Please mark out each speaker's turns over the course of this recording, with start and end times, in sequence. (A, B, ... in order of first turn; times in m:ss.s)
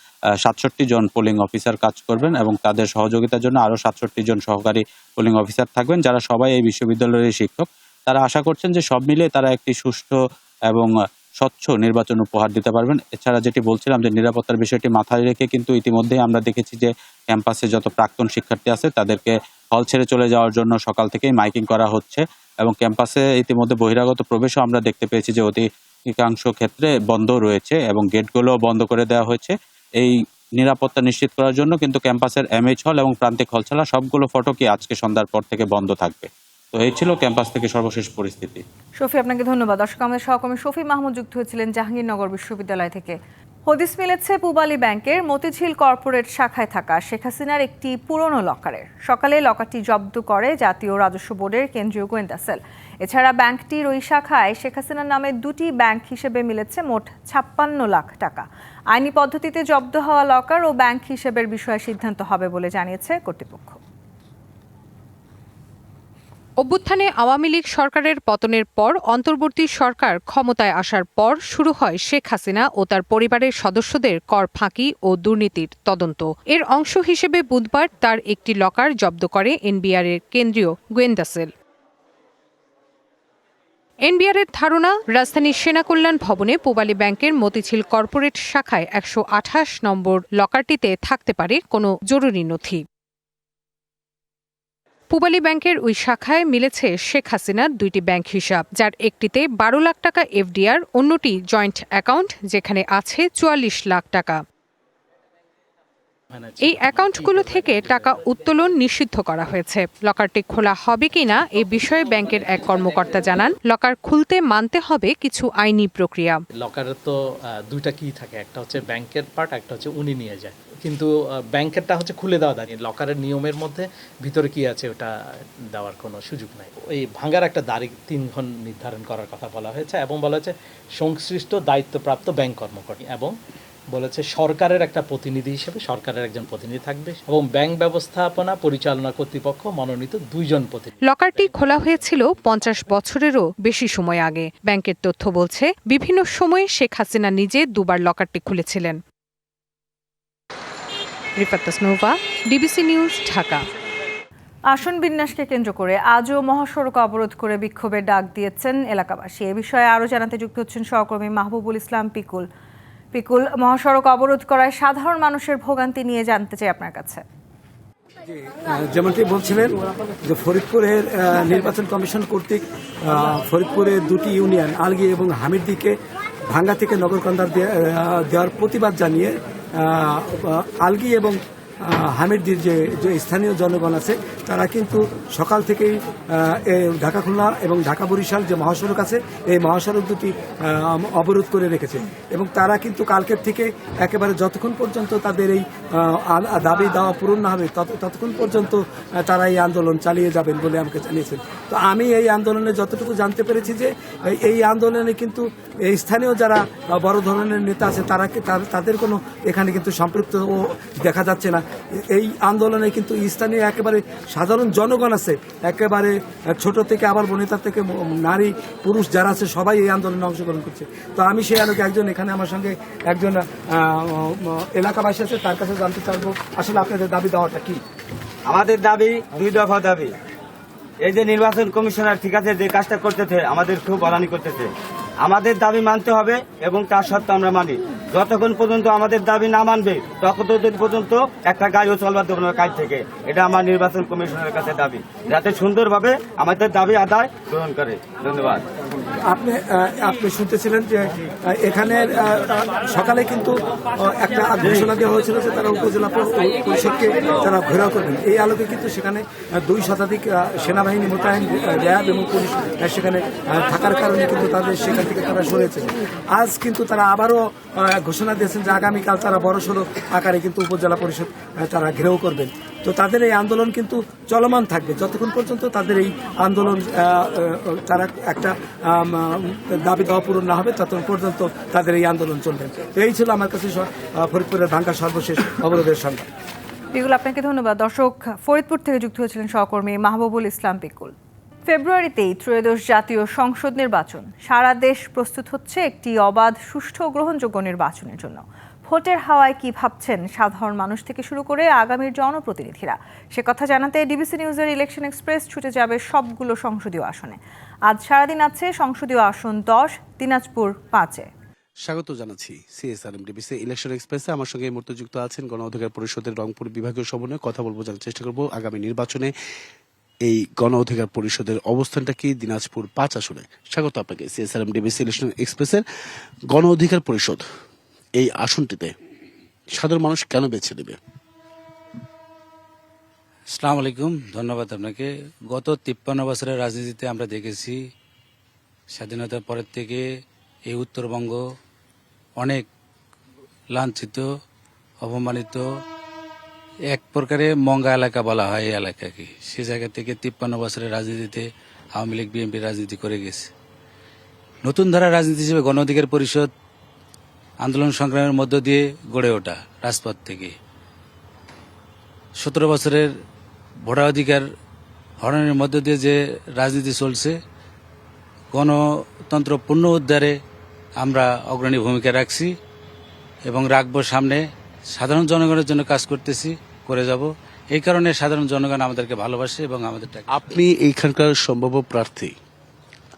0:00.4-0:10.2 A
0:11.4-0:38.6 A
0:39.0-0:43.2 B
0:43.7-1:03.8 B
1:06.6-1:21.5 C
1:24.0-1:32.8 C
1:35.1-1:44.4 C
1:46.3-1:48.2 D
1:46.6-1:56.4 C
1:56.6-2:13.4 D
2:13.9-2:22.4 D
2:21.0-2:29.0 C
2:31.4-2:33.6 C
2:34.7-2:42.4 B
2:43.1-2:47.2 B
2:48.2-2:55.9 E
2:56.5-3:47.8 E
3:48.5-3:50.1 F
3:51.0-3:54.7 F
3:55.2-4:08.6 F
4:09.2-4:46.2 E
4:46.9-4:51.1 B
4:51.7-5:11.3 B
5:11.8-5:19.3 G
5:20.2-5:25.8 G
5:26.5-5:27.4 G
5:28.2-5:28.9 G
5:29.8-5:31.0 G
5:33.6-5:37.8 H
5:38.9-5:40.0 H
5:40.7-5:41.4 H
5:42.4-5:42.7 H
5:43.7-5:44.3 H
5:45.0-5:45.6 H
5:46.9-5:53.5 H
5:54.6-5:56.5 H
5:57.6-6:00.5 H
6:02.4-6:03.1 H
6:03.8-6:04.4 H
6:05.2-6:07.4 H
6:08.5-6:08.8 H
6:09.3-6:10.4 H
6:11.0-6:12.5 H
6:13.5-6:14.4 H
6:15.0-6:20.2 H
6:20.3-6:22.3 G